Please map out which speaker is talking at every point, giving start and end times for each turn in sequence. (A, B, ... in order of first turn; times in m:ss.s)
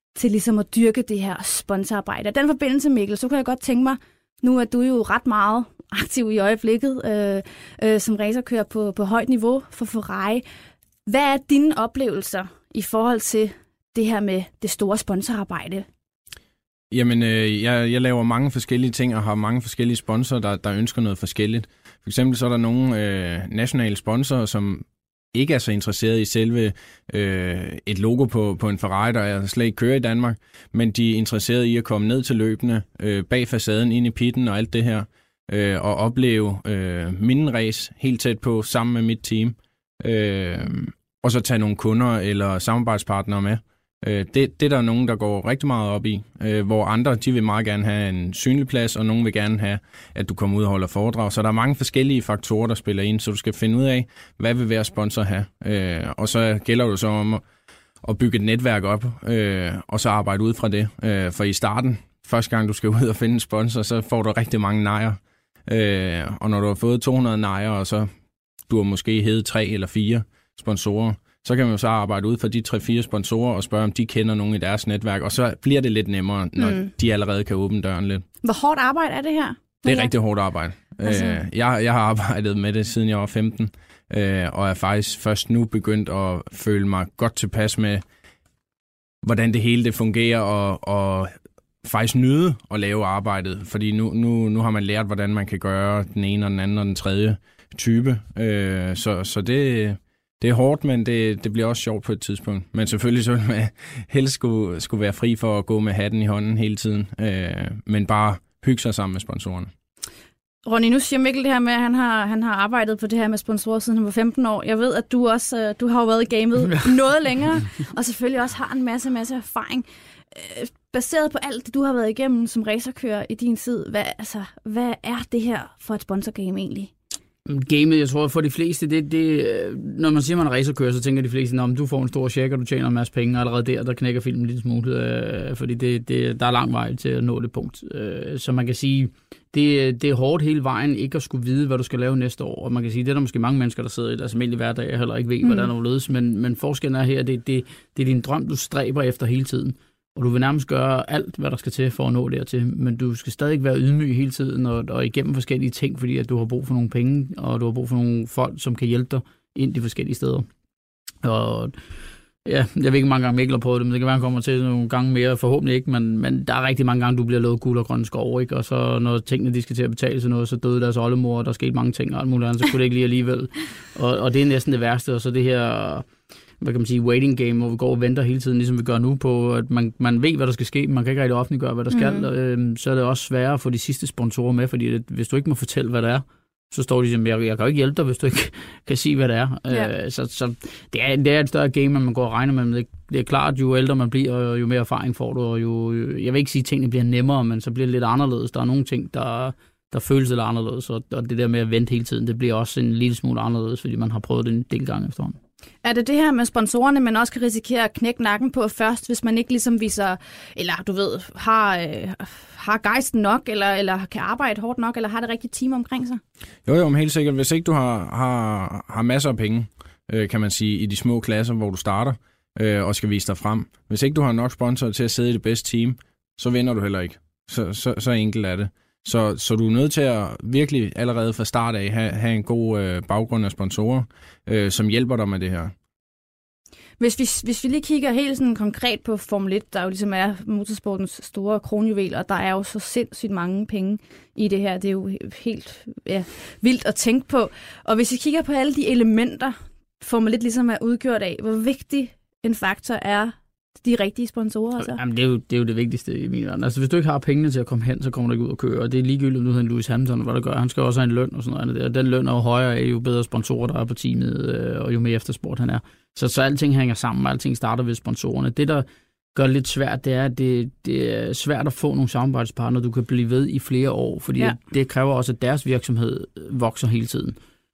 0:00.2-0:10.4 A
0:11.1-0:15.9 A
0:16.9-0:57.4 B
0:58.0-1:08.1 B
1:08.7-1:18.3 B
1:16.6-1:16.9 A
1:18.4-1:20.1 A
1:19.8-1:28.0 B
1:21.0-1:21.4 A
1:29.2-1:31.3 B
1:31.8-1:49.7 B
1:50.6-2:06.9 A
2:07.5-2:40.5 C
2:25.4-2:25.7 A
2:41.2-2:41.8 C
2:42.4-2:56.1 C
2:56.6-3:25.4 C
3:01.9-3:02.3 A
3:25.8-3:36.2 A
3:36.7-3:55.7 B
3:57.0-4:15.0 A
4:14.8-4:37.4 C